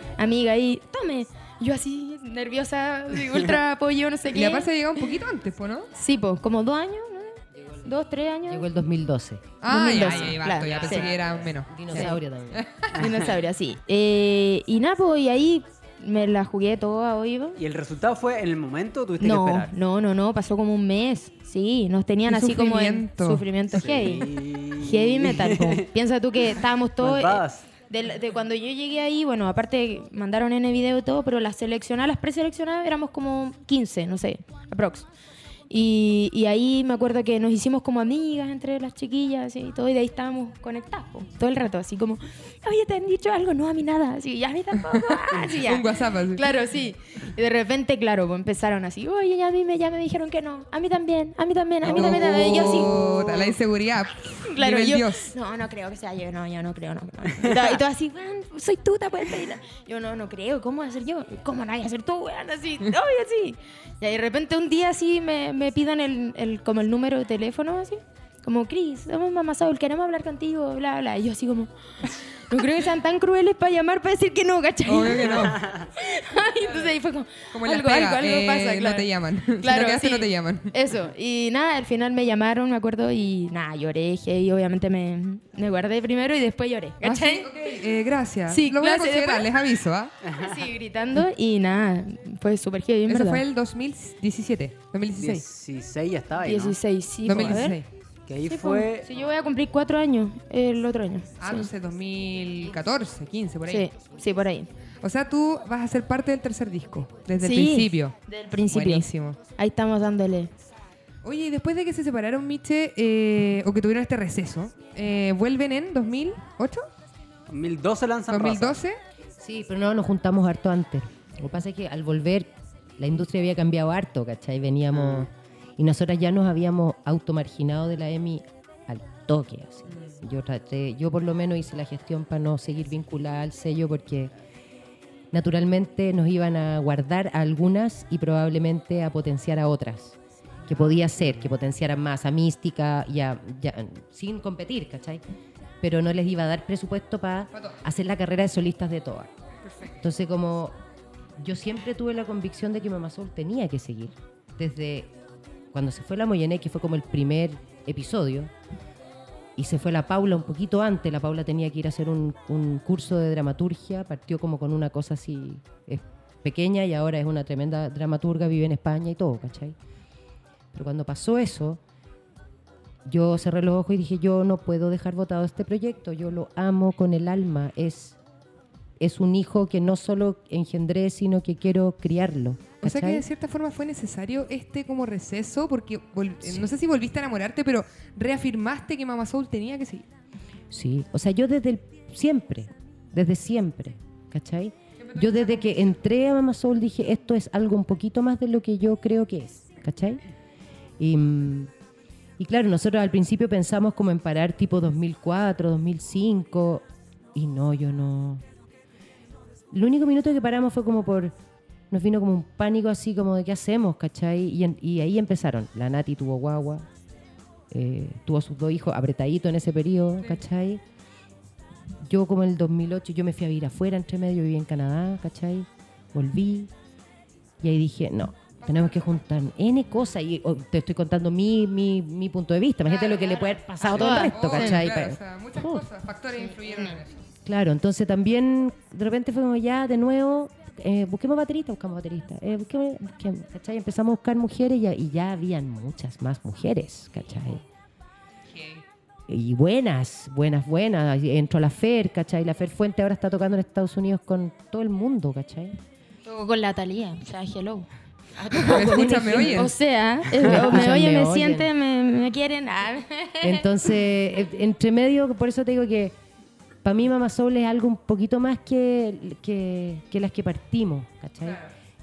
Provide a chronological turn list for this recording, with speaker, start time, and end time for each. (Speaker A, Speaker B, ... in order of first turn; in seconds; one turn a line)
Speaker A: 0.2-4.7
Speaker B: 4.3-5.9
Speaker A: 6.0-8.7
Speaker C: 7.5-7.9
Speaker C: 8.5-12.6
Speaker B: 9.6-13.1
Speaker A: 9.7-11.1
Speaker A: 11.9-12.2
Speaker A: 12.9-17.6
Speaker D: 17.6-19.7
Speaker A: 19.2-35.1
Speaker B: 22.3-23.4
Speaker D: 23.7-25.9
Speaker D: 27.0-27.6
Speaker A: 35.7-53.6
Speaker B: 45.5-46.4
Speaker B: 51.8-55.3
Speaker D: 51.8-52.8
Speaker A: 54.4-71.7
Speaker A: 72.3-87.5
Speaker B: 74.8-75.7
Speaker D: 75.2-75.9
Speaker B: 77.5-80.7
Speaker B: 87.0-90.1
Speaker A: 88.5-89.5
Speaker D: 90.2-90.5
Speaker A: 90.3-93.4
Speaker B: 93.1-95.4
Speaker D: 95.1-96.8
Speaker A: 96.4-97.8
Speaker B: 97.2-97.9
Speaker D: 98.3-99.1
Speaker A: 98.5-101.7
Speaker B: 101.4-103.9
Speaker A: 103.7-104.7
Speaker B: 105.0-108.2
Speaker A: 107.4-110.5
Speaker B: 108.7-109.4
Speaker B: 111.2-116.8
Speaker D: 117.5-118.8
Speaker B: 118.3-119.0
Speaker C: 119.4-134.3
Speaker D: 124.9-125.3
Speaker C: 135.3-145.2
Speaker C: 145.8-149.3
Speaker B: 147.5-147.8
Speaker B: 149.6-149.9
Speaker C: 150.0-150.8
Speaker C: 151.4-155.1
Speaker C: 155.7-158.5
Speaker C: 159.6-169.8
Speaker C: 170.7-171.8
Speaker C: 173.1-178.2
Speaker C: 179.0-183.2
Speaker B: 182.8-190.1
Speaker C: 186.4-186.7
Speaker C: 190.7-200.2
Speaker B: 195.0-195.9
Speaker C: 201.0-201.7
Speaker C: 202.4-208.4
Speaker C: 209.7-211.3
Speaker C: 211.9-216.9
Speaker C: 217.7-220.8
Speaker C: 222.0-226.7
Speaker C: 227.6-235.9
Speaker B: 228.6-229.2
Speaker A: 232.9-234.9
Speaker B: 233.8-237.2
Speaker A: 236.4-237.0
Speaker C: 237.4-247.6
Speaker B: 248.5-248.8
Speaker C: 249.3-255.8
Speaker A: 256.2-257.9
Speaker C: 258.4-259.8
Speaker A: 258.5-263.9
Speaker B: 258.7-259.7
Speaker C: 260.3-261.7
Speaker C: 263.4-266.1
Speaker C: 266.8-271.6
Speaker B: 271.4-271.7